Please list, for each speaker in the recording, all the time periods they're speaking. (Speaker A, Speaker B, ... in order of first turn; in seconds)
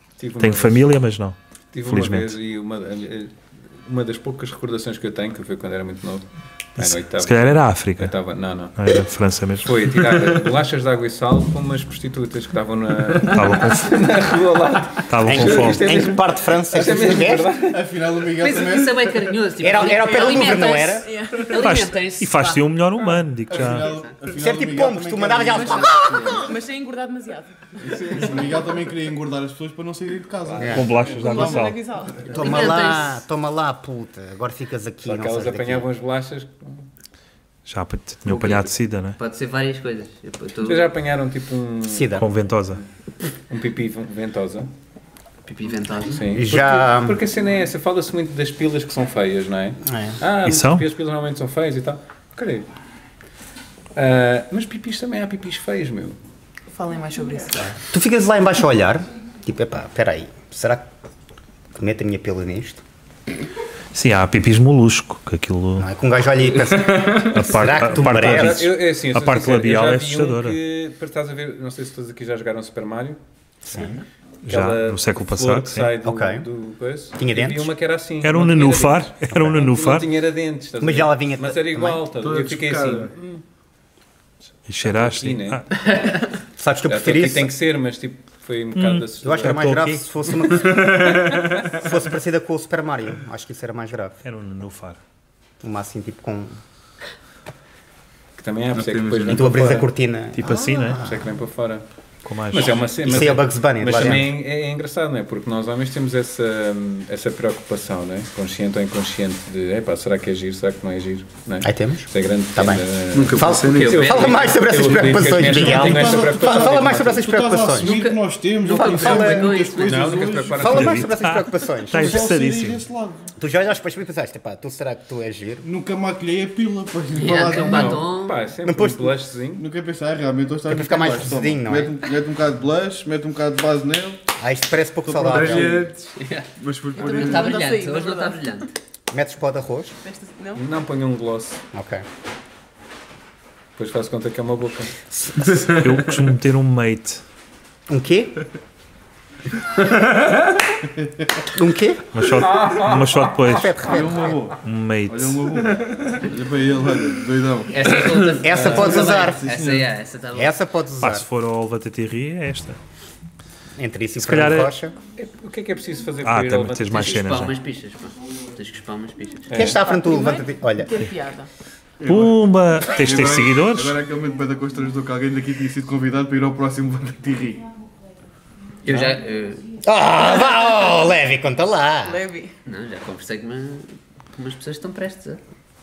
Speaker A: 0.2-0.9, 1.7-8.9, 9.6-17.8, 27.9-28.4, 30.5-31.6, 35.0-36.8, 38.3-38.7, 40.6-42.2, 43.5-44.7, 46.1-52.7, 54.0-56.2, 68.0-73.2, 74.5-83.4, 84.8-85.6, 86.9-89.6, 98.4-99.9, 101.0-101.8, 102.5-117.2, 119.8-121.1, 127.5-129.7, 140.6-141.6, 143.8-144.9, 152.3-154.3, 158.5-159.3, 165.2-167.3, 169.5-169.8
Speaker B: 0.3-2.4, 6.8-8.2, 8.8-9.8, 13.3-13.9, 15.1-15.9, 21.5-23.9, 30.6-31.8, 37.7-39.2, 42.2-42.8, 50.4-50.9, 63.9-65.9, 67.3-70.6, 74.4-76.0, 78.2-80.1, 84.7-85.7, 88.7-90.0, 94.2-95.0, 100.3-101.0, 102.2-103.2, 120.6-122.9, 145.8-147.2, 152.2-153.8, 154.6-155.5, 161.0-162.8, 164.2-164.7, 166.2-167.6, 172.0-174.0
Speaker C: 15.3-17.5, 19.6-21.1, 24.3-26.5, 30.6-30.9, 32.3-35.9, 41.9-42.3, 46.3-47.2, 49.8-50.2, 57.8-60.9, 61.8-62.8, 65.8-68.7, 73.7-74.0, 76.0-76.5, 77.2-77.7, 79.3-79.6, 80.8-82.1, 86.6-87.5, 89.2-91.0, 91.8-94.2, 95.6-96.5, 99.3-101.2, 103.0-104.3, 111.6-118.0, 118.7-119.6, 120.5-122.3, 123.4-125.7, 128.6-129.1, 130.7-132.0, 134.4-135.9, 139.1-140.0, 141.7-142.0, 145.1-145.6, 147.9-148.4, 151.5-152.1, 153.4-154.4, 158.3-159.5, 160.3-161.3, 163.8-164.9, 169.5-171.0, 179.8-182.2
Speaker D: 16.9-19.4, 23.5-26.5, 27.8-31.7, 115.3-120.8, 121.9-123.3, 125.6-128.1, 129.6-134.2, 135.1-135.8, 151.0-151.3, 153.8-157.8, 158.8-159.9, 172.0-172.3, 173.0-177.7, 178.9-179.1
Speaker E: 18.4-22.7, 23.8-24.1, 32.4-33.2, 39.2-40.9, 45.5-46.2, 85.9-86.3, 113.1-114.3, 117.8-120.4, 127.2-128.5, 136.2-136.5, 137.0-138.7, 157.7-160.6, 166.9-169.7, 178.8-179.7, 182.7-185.4
Speaker F: 20.1-21.5, 25.5-27.5, 31.2-32.3, 56.7-57.7, 137.0-138.4, 140.1-140.6, 169.8-171.5, 182.0-182.5
Speaker G: 66.5-67.3, 82.2-83.1, 90.6-91.4, 98.7-99.7, 113.2-114.2, 135.3-137.5